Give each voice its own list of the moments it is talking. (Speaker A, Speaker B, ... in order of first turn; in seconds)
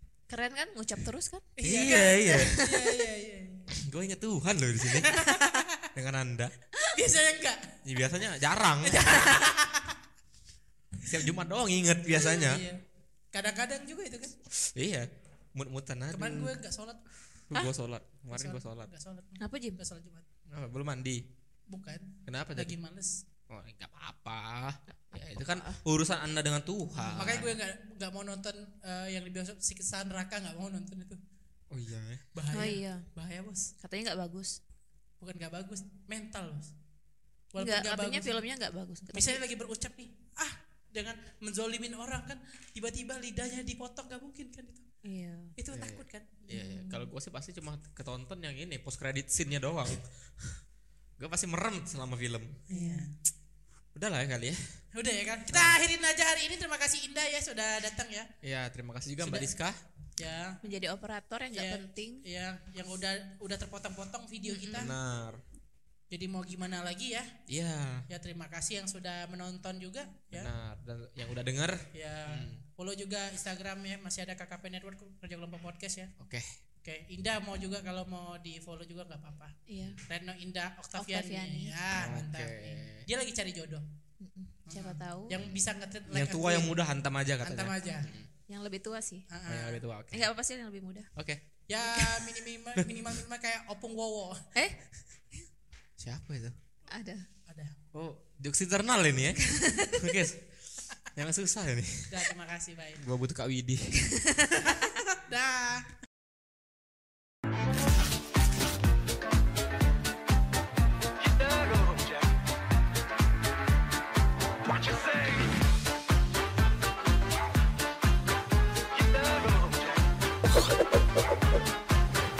Speaker A: 0.3-1.5, 2.2-2.8, 5.1-5.6, 19.4-19.8, 25.1-25.8, 32.5-33.1, 33.8-34.6, 37.6-39.4, 45.0-45.5, 46.6-47.0, 52.7-53.1, 60.6-62.2, 64.5-64.9, 79.7-80.0, 81.0-81.9, 84.2-85.4, 88.5-89.3, 90.1-91.1, 96.9-97.2, 99.4-100.1, 104.0-104.7
Speaker B: 1.6-3.7, 4.9-5.9, 6.9-7.8, 8.8-10.0, 12.2-12.8, 13.3-14.3, 16.1-17.0, 18.3-20.2, 21.7-23.2, 27.1-31.2, 32.3-33.7, 35.2-36.7, 37.5-38.3, 39.1-44.9, 45.6-46.8, 52.7-53.1, 54.9-58.3, 59.2-59.5, 60.2-60.6, 61.5-65.0, 66.1-67.4, 68.1-70.5, 71.9-76.1, 76.8-83.8, 84.7-86.8, 87.4-88.1, 89.3-89.8, 91.7-94.5, 97.5-97.8, 102.1-103.0, 105.0-105.9
Speaker C: 1.6-2.8, 3.7-5.2, 5.9-6.5, 7.8-9.2, 11.0-12.6, 14.5-16.6, 17.5-18.9, 20.5-21.2, 22.2-22.8, 23.5-27.6, 31.7-32.2, 45.7-50.6, 51.2-52.6, 53.9-54.6, 55.5-55.8, 58.4-59.8, 64.7-65.4, 67.5-68.1, 70.3-72.6, 76.2-76.5, 81.9-83.0, 85.4-88.3, 89.5-90.3, 91.2-91.4, 96.0-96.5, 97.9-102.3, 103.0-104.2
Speaker D: 111.2-112.4, 114.6-115.6, 118.8-120.2